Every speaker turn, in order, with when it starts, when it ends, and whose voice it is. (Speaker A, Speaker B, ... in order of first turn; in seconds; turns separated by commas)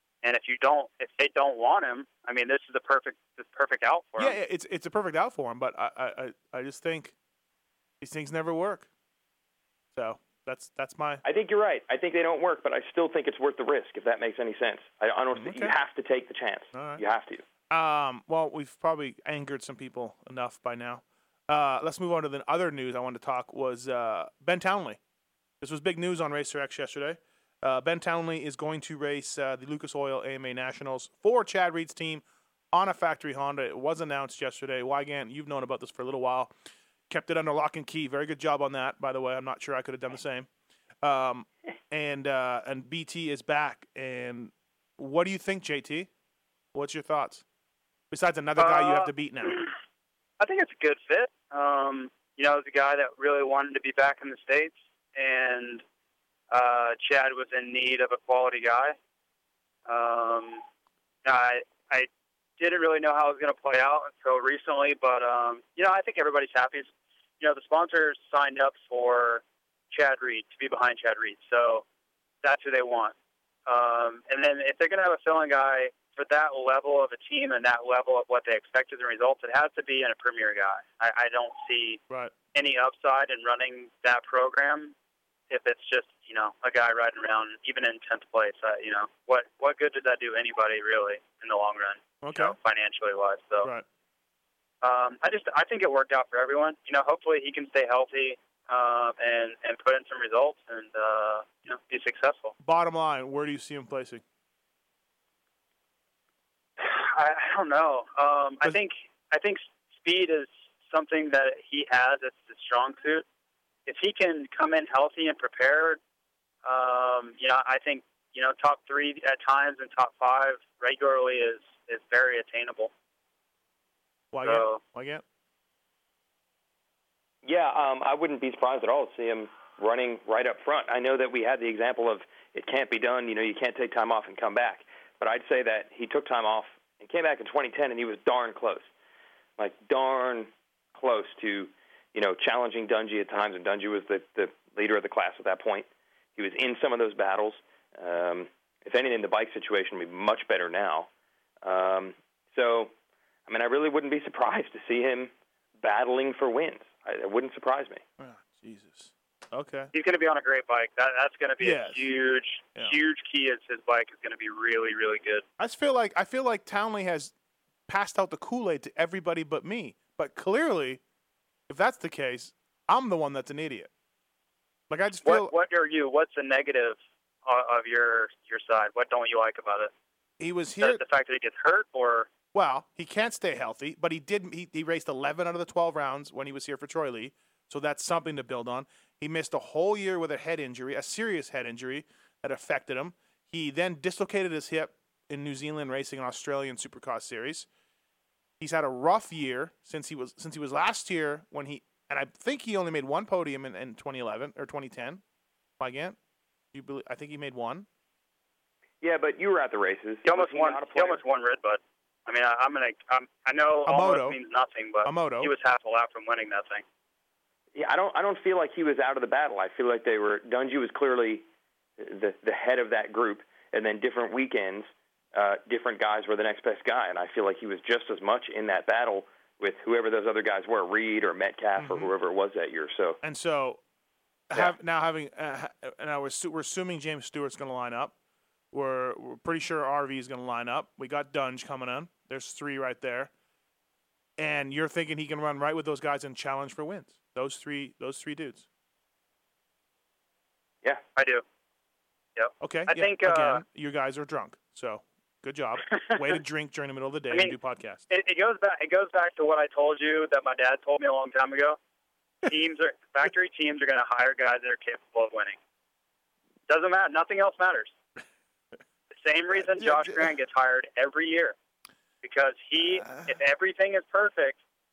Speaker A: 0.2-4.4, Speaker B: 4.2-7.1, Speaker B: 8.0-8.8, Speaker B: 9.9-11.2, Speaker C: 11.2-17.4, Speaker B: 15.3-15.7, Speaker B: 16.7-17.0, Speaker B: 17.7-25.0, Speaker B: 25.6-36.5, Speaker B: 37.1-40.5, Speaker B: 41.0-46.1, Speaker B: 46.7-47.4, Speaker B: 48.1-49.6, Speaker A: 48.6-49.7, Speaker A: 50.4-55.8, Speaker A: 56.5-59.0, Speaker A: 59.9-60.6, Speaker A: 61.2-71.8, Speaker A: 72.4-73.1, Speaker A: 73.7-82.0, Speaker A: 82.5-84.9, Speaker A: 85.5-93.7, Speaker B: 92.2-92.5, Speaker A: 94.8-102.5, Speaker B: 102.6-104.2, Speaker A: 106.8-113.2, Speaker A: 113.8-116.0, Speaker A: 116.6-122.9, Speaker B: 124.3-125.2, Speaker A: 124.4-124.8, Speaker C: 127.4-138.9, Speaker C: 139.6-151.1, Speaker C: 151.6-152.9, Speaker C: 153.5-158.0, Speaker B: 158.2-159.9, Speaker A: 159.9-165.4, Speaker B: 161.6-162.1, Speaker B: 165.6-167.3, Speaker B: 167.9-171.0, Speaker B: 171.7-173.9, Speaker B: 174.9-175.5, Speaker A: 175.2-179.9, Speaker B: 180.4-181.0, Speaker A: 180.8-182.3, Speaker B: 182.5-197.7, Speaker B: 198.6-205.2, Speaker B: 205.8-206.2, Speaker B: 206.7-207.8, Speaker C: 209.0-211.2, Speaker A: 210.2-216.8, Speaker B: 213.9-214.4, Speaker B: 215.0-215.5, Speaker C: 217.7-221.4, Speaker C: 222.0-233.2, Speaker B: 231.8-232.1, Speaker B: 233.2-233.8, Speaker B: 234.5-238.1, Speaker B: 238.7-243.3, Speaker B: 244.4-248.7, Speaker A: 251.2-251.4, Speaker A: 252.3-253.6, Speaker B: 252.6-258.0, Speaker A: 256.1-256.3, Speaker A: 257.3-257.6, Speaker A: 258.1-261.8, Speaker A: 262.4-265.6, Speaker A: 266.7-267.9, Speaker A: 269.2-271.5, Speaker B: 269.7-270.3, Speaker A: 272.2-274.6, Speaker B: 272.8-273.3